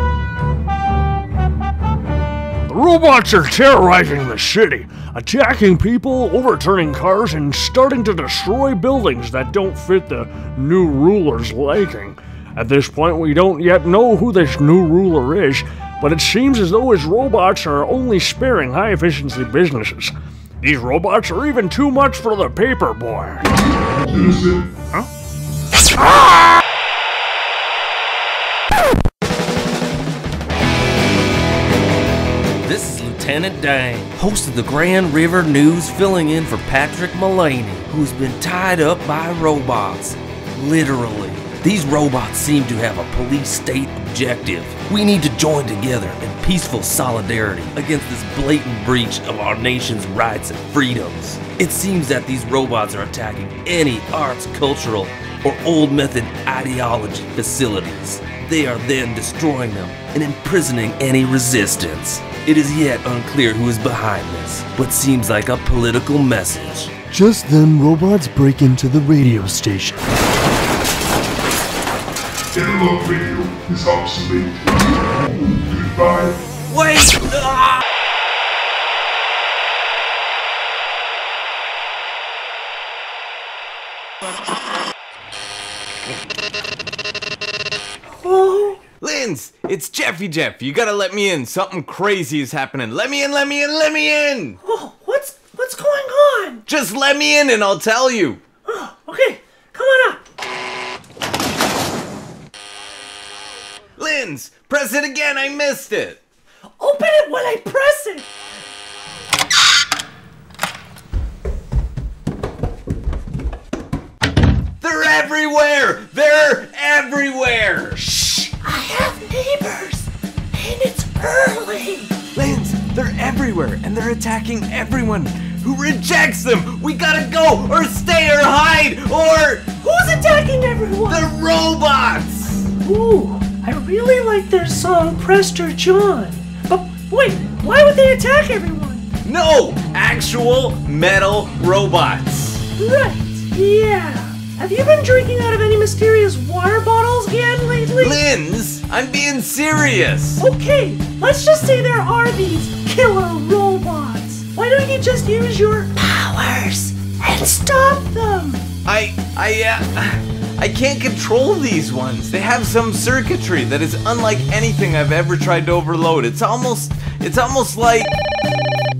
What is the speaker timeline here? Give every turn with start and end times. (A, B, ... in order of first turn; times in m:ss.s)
0:02.7-0:23.5 A
0:24.0-0:24.7 B
0:32.6-1:06.9 C
1:07.1-1:10.0 D
1:12.5-1:16.4 B
1:16.7-1:17.8 E
1:28.2-1:28.8 F
1:29.0-1:34.6 E
1:34.6-1:36.6 F
1:36.7-1:38.4 E
1:38.7-1:40.2 F
1:44.0-1:46.2 E
1:46.8-1:48.2 F
1:54.8-1:58.5 E
1:58.6-2:02.1 F
2:02.3-2:09.7 E
2:09.8-2:11.2 F
2:11.1-2:12.7 E
2:12.8-2:19.0 F
2:19.2-2:22.7 E
2:22.8-2:28.2 F
2:28.0-2:30.4 E
2:30.4-2:38.7 F
2:38.8-2:48.1 E